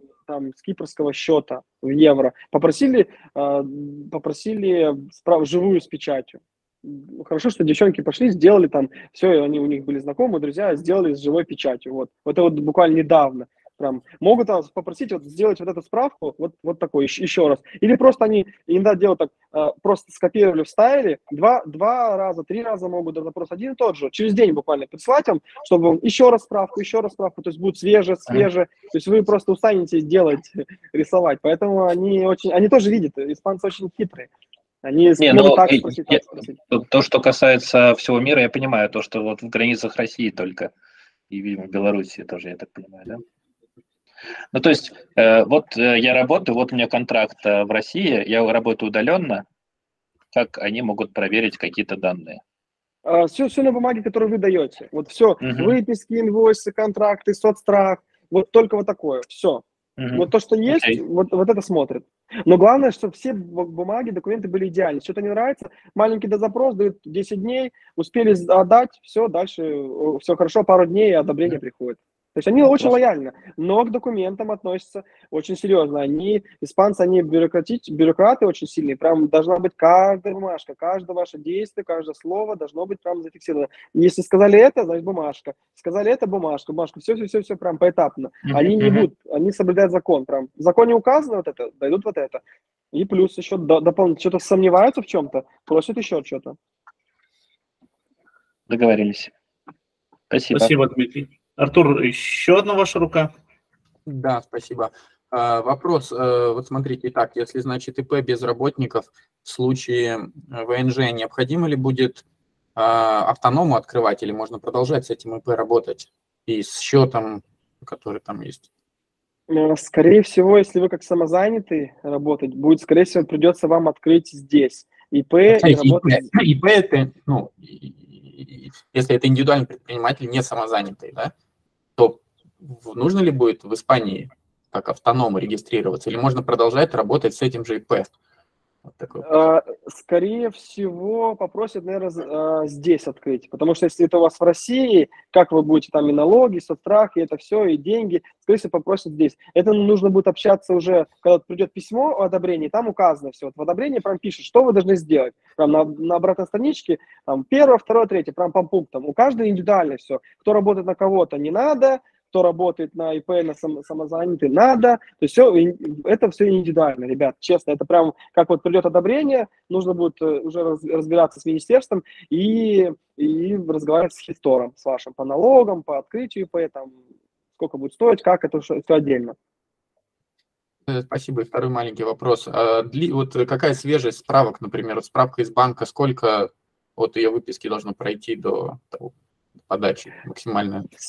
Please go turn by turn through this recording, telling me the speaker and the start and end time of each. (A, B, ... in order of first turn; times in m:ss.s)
0:00.3-0:34.3 A
0:34.8-0:36.6 A
0:35.2-0:40.7 B
0:41.3-0:43.2 B
0:44.5-0:49.4 B
0:50.3-0:52.4 B
0:53.0-0:59.6 A
0:55.4-0:55.7 B
1:00.0-1:01.0 B
1:00.1-1:32.4 A
1:12.6-1:12.9 B
1:28.5-1:29.1 B
1:32.9-1:36.6 A
1:38.7-1:39.3 B
1:40.3-1:40.8 B
1:40.5-1:43.3 C
1:44.0-1:52.2 D
1:52.8-1:58.7 D
1:59.5-2:06.2 A
2:05.5-2:11.3 D
2:12.0-2:18.1 D
2:18.9-2:19.2 D
2:19.2-2:57.0 A
2:57.6-2:59.3 A
3:00.9-3:09.1 D
3:09.6-3:10.9 D